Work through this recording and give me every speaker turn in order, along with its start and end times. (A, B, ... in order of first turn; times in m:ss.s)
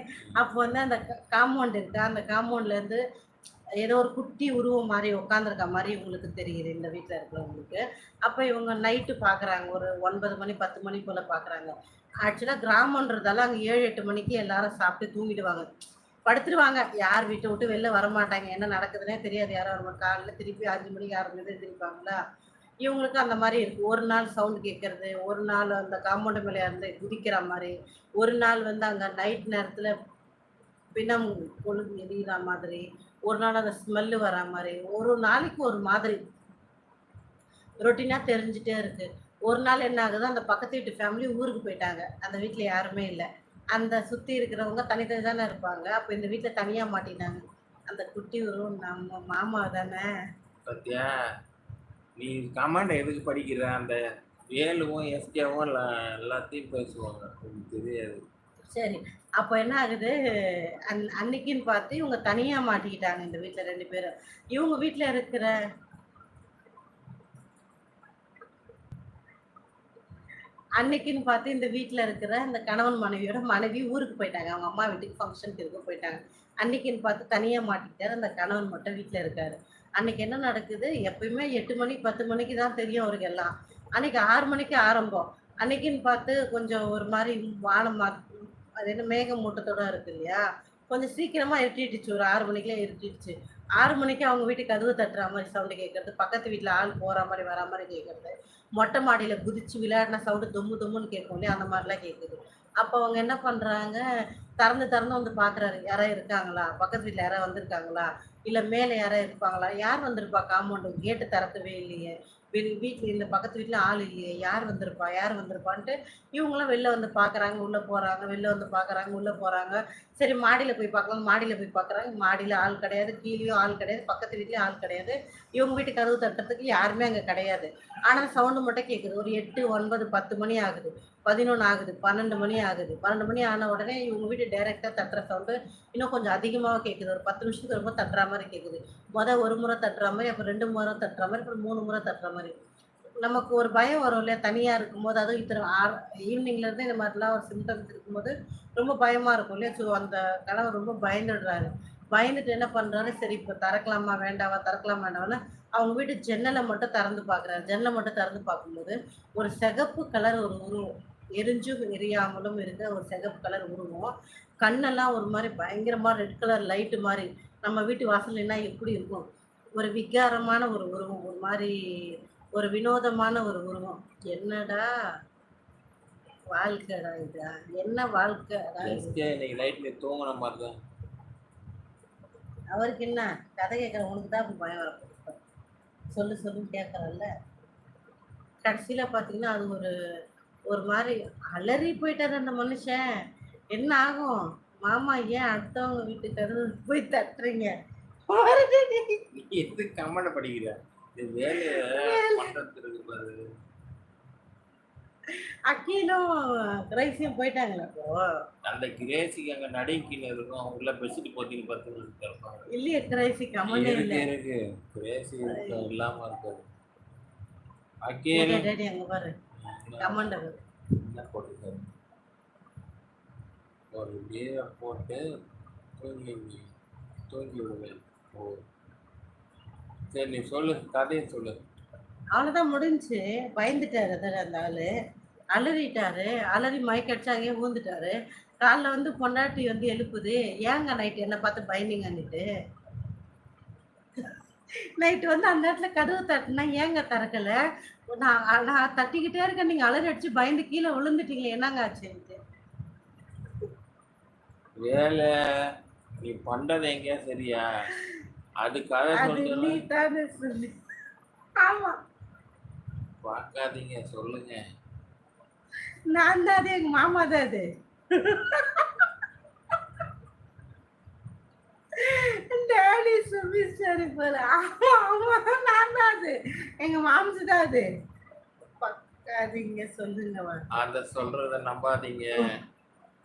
0:00.4-0:03.0 A
0:03.8-0:11.7 A
0:12.2-0:15.7 A
0:16.3-0:22.2 A
0:22.8-0:29.9 A
0:31.0-0:36.2 A
0:37.8-0:50.1 A
0:50.6-0:51.2 B
0:52.2-0:54.0 B
0:54.5-0:58.2 B
0:58.7-1:00.2 A
1:00.9-1:05.5 A
1:10.8-1:28.2 A
1:28.8-1:44.0 A
1:44.6-2:22.6 A
2:23.2-2:49.2 A
2:49.8-2:54.9 A
2:56.5-2:59.2 A
2:58.8-3:00.8 B
3:02.7-3:05.4 A
3:06.1-3:07.3 A
3:08.6-3:09.9 A
3:10.7-3:13.1 A
3:13.7-3:17.7 A
3:18.3-3:19.2 A
3:19.3-3:23.4 B
3:21.6-3:22.5 A
3:25.7-3:26.3 A
3:26.9-3:28.3 A
3:28.7-3:32.7 B
3:32.7-3:34.3 A
3:33.7-3:36.7 B
3:35.5-3:35.9 A
3:38.1-3:38.7 B
3:38.3-3:39.3 A
3:39.6-3:40.3 B
3:40.0-3:40.6 A
3:41.0-3:41.9 B
3:43.9-3:45.2 B
3:46.0-3:46.7 B
3:47.3-3:48.6 B
3:50.1-3:51.5 B
3:52.3-3:54.9 A
3:55.5-4:02.5 A
4:05.0-4:07.6 A
4:08.1-4:12.4 A
4:14.8-4:15.3 B
4:16.2-4:17.7 B
4:18.6-4:19.8 B
4:19.1-4:20.7 A
4:21.6-4:22.0 A
4:23.2-4:24.6 B
4:26.1-4:29.1 A
4:32.0-4:37.9 A
4:38.8-4:40.6 A
4:40.8-4:42.5 B